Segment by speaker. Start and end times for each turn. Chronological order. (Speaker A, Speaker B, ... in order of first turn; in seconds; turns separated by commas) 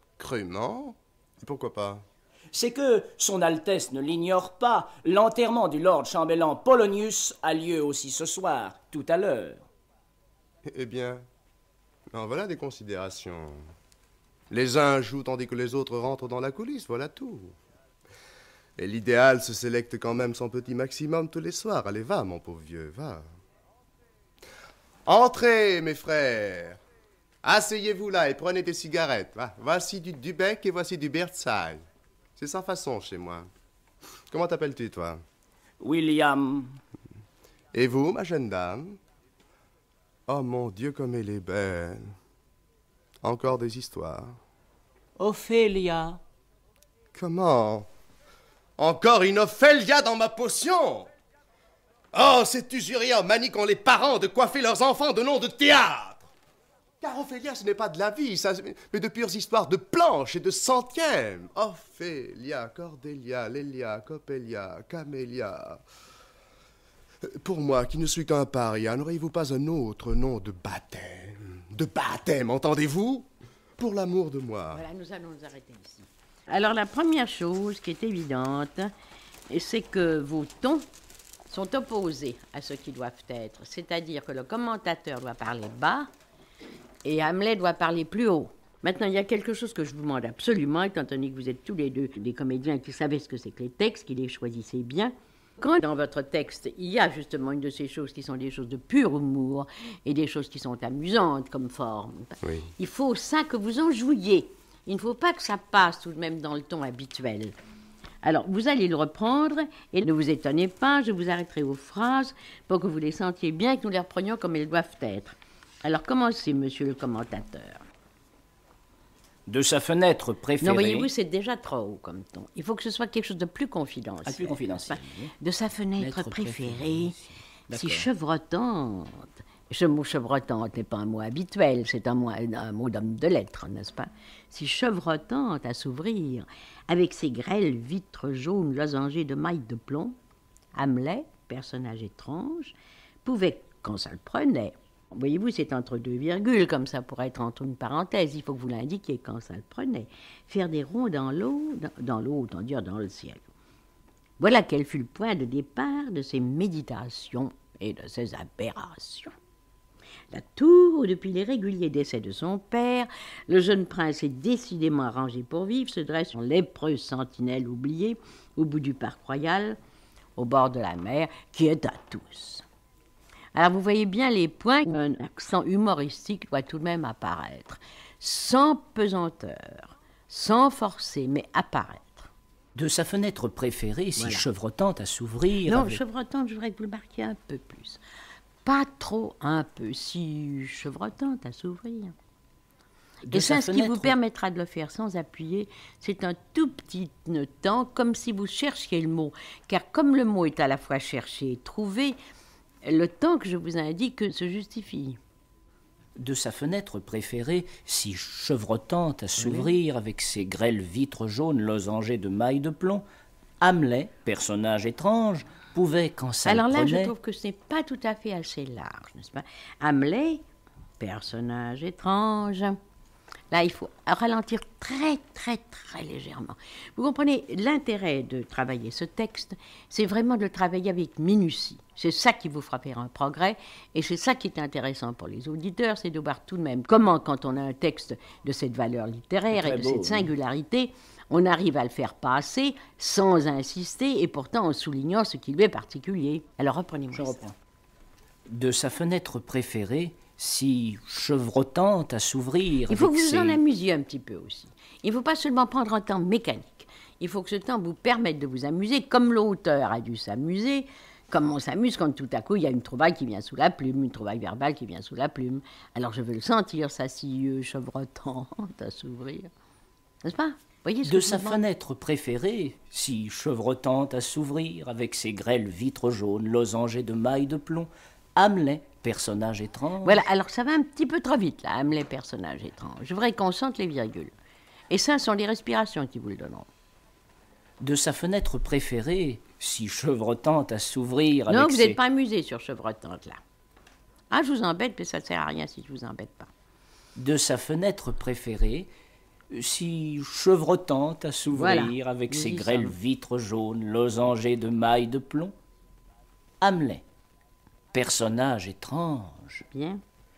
Speaker A: 0.2-2.0, Speaker B: 2.5-9.6, Speaker A: 10.7-11.2, Speaker A: 12.1-13.6, Speaker A: 14.5-17.5, Speaker A: 18.8-23.2, Speaker A: 25.1-26.8, Speaker A: 27.4-31.8, Speaker A: 32.4-33.5, Speaker A: 34.3-35.2, Speaker B: 35.8-36.8, Speaker A: 37.7-39.0, Speaker A: 40.3-42.1, Speaker A: 43.2-44.4, Speaker B: 45.2-46.2, Speaker A: 47.1-47.9, Speaker A: 48.8-51.1, Speaker A: 52.1-56.3, Speaker A: 57.0-65.8, Speaker A: 67.2-74.8, Speaker C: 74.7-78.9, Speaker C: 79.5-80.8, Speaker C: 81.5-86.1, Speaker C: 87.0-107.5, Speaker A: 102.4-102.7, Speaker C: 108.2-117.8, Speaker B: 119.5-121.1, Speaker C: 120.6-127.1, Speaker B: 124.2-125.3, Speaker B: 126.0-128.1, Speaker C: 127.7-140.1, Speaker C: 140.7-153.4, Speaker C: 154.4-159.3, Speaker C: 160.3-169.8, Speaker C: 170.4-172.6, Speaker C: 173.5-182.3, Speaker B: 182.7-186.0, Speaker C: 184.2-184.4, Speaker C: 185.7-188.0, Speaker C: 188.6-192.1, Speaker B: 193.3-194.1, Speaker C: 193.3-202.2, Speaker C: 202.8-205.2, Speaker B: 206.2-213.0, Speaker C: 209.4-209.7, Speaker B: 213.6-217.1, Speaker C: 216.4-220.4, Speaker C: 221.0-222.8, Speaker C: 223.5-247.4, Speaker B: 239.5-240.3, Speaker B: 247.1-247.5, Speaker B: 248.5-253.6, Speaker C: 252.9-269.5, Speaker C: 270.2-271.6, Speaker B: 271.0-280.2, Speaker C: 280.0-284.3, Speaker C: 284.9-286.7, Speaker B: 287.8-292.0, Speaker C: 291.5-293.4, Speaker C: 294.3-296.5, Speaker B: 297.1-298.9, Speaker B: 299.5-305.5, Speaker C: 301.5-302.9, Speaker B: 306.6-307.0, Speaker B: 307.9-309.6, Speaker C: 309.7-310.0